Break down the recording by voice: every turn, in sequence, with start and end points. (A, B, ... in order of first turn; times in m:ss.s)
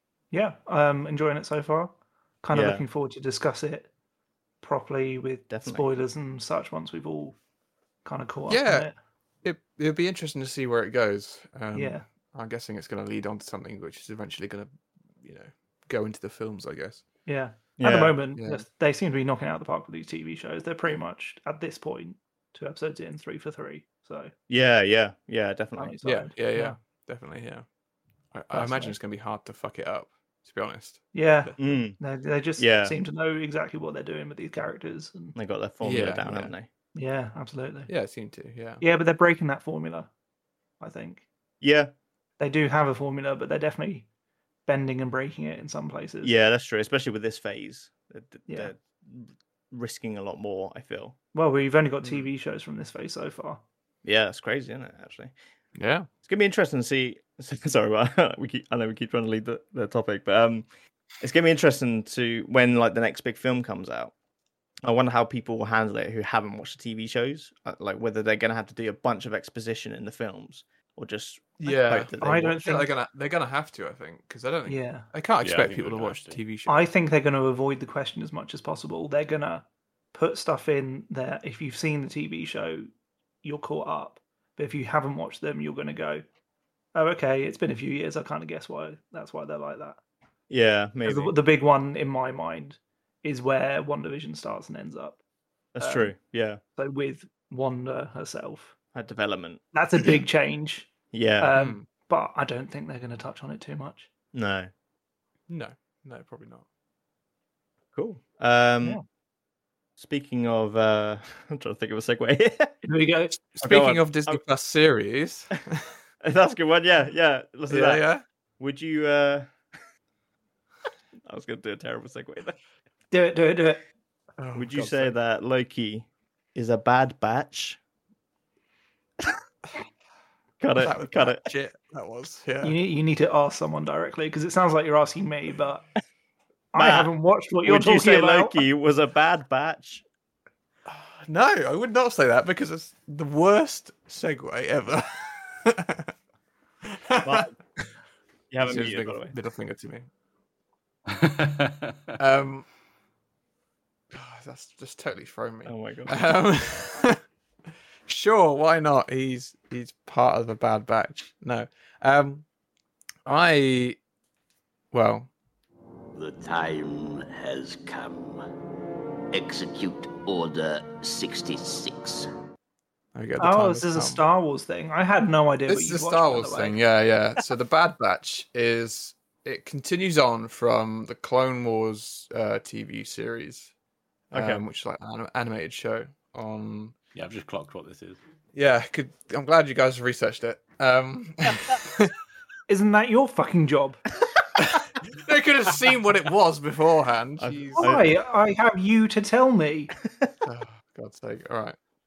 0:00.3-0:03.9 A
0:02.5-0:02.8 B
0:04.6-0:07.4 A
0:05.5-0:05.9 B
0:08.0-0:08.9 A
0:08.5-0:08.9 C
0:09.4-0:14.7 C
0:11.7-0:12.0 A
0:15.2-0:17.0 C
0:17.2-0:24.3 A
0:17.8-0:18.2 B
0:18.4-0:18.6 C
0:24.5-0:26.0 B
0:25.8-0:26.8 A
0:26.0-0:27.6 C
0:28.3-0:31.5 C
0:28.5-0:29.0 A
0:31.1-0:35.4 A
0:31.6-0:32.0 B
0:32.6-0:33.0 B
0:35.3-0:36.7 B
0:35.8-0:36.5 C
0:36.9-0:37.9 A
0:37.9-0:38.8 C
0:38.8-0:40.1 A
0:40.8-0:41.2 A
0:41.6-0:41.9 B
0:42.4-0:44.0 A
0:44.7-0:46.3 A
0:46.2-0:51.2 B
0:48.5-0:48.7 A
0:51.3-0:53.6 A
0:54.0-0:55.3 B
0:55.8-0:56.1 C
0:56.2-1:00.7 B
1:01.2-1:04.1 B
1:04.8-1:12.6 B
1:11.6-1:16.9 C
1:12.2-1:12.9 A
1:14.7-1:15.1 A
1:15.4-1:16.4 D
1:16.7-1:22.9 A
1:23.4-1:26.2 A
1:26.9-1:30.0 A
1:30.5-1:31.3 B
1:31.0-1:35.2 A
1:35.7-1:36.6 B
1:35.8-1:36.1 A
1:36.8-1:38.7 A
1:38.9-1:39.6 B
1:39.7-1:40.9 A
1:41.1-1:41.5 B
1:41.4-1:44.1 A
1:41.5-1:41.8 C
1:44.3-1:44.7 B
1:45.5-1:46.6 C
1:47.9-1:49.0 B
1:50.0-1:52.7 B
1:52.8-1:53.4 A
1:53.6-1:55.8 C
1:53.6-1:54.4 B
1:56.2-1:58.0 B
1:57.7-1:58.2 C
1:58.6-1:59.5 B
2:01.2-2:02.6 B
2:03.1-2:03.8 A
2:04.4-2:05.1 C
2:04.5-2:07.8 B
2:10.6-2:11.4 B
2:10.8-2:12.8 C
2:12.6-2:15.8 A
2:16.7-2:18.6 A
2:16.7-2:17.1 B
2:17.6-2:20.0 B
2:20.8-2:26.1 C
2:26.8-2:27.4 C
2:27.2-2:27.6 B
2:28.5-2:29.3 B
2:28.6-2:30.0 C
2:31.1-2:32.1 D
2:32.2-2:32.7 C
2:34.1-2:37.2 C
2:35.6-2:36.2 B
2:38.1-2:42.4 C
2:43.2-2:44.0 C
2:44.9-2:45.3 C
2:46.1-2:48.4 E
2:49.3-2:52.3 E
2:53.1-2:54.2 C
2:53.4-2:56.8 A
2:55.7-3:03.7 C
3:04.3-3:04.6 B
3:04.3-3:06.9 C
3:07.1-3:08.2 D
3:08.5-3:12.1 C
3:12.7-3:14.0 A
3:14.6-3:18.0 C
3:17.4-3:18.1 B
3:17.8-3:19.9 A
3:20.4-3:21.8 C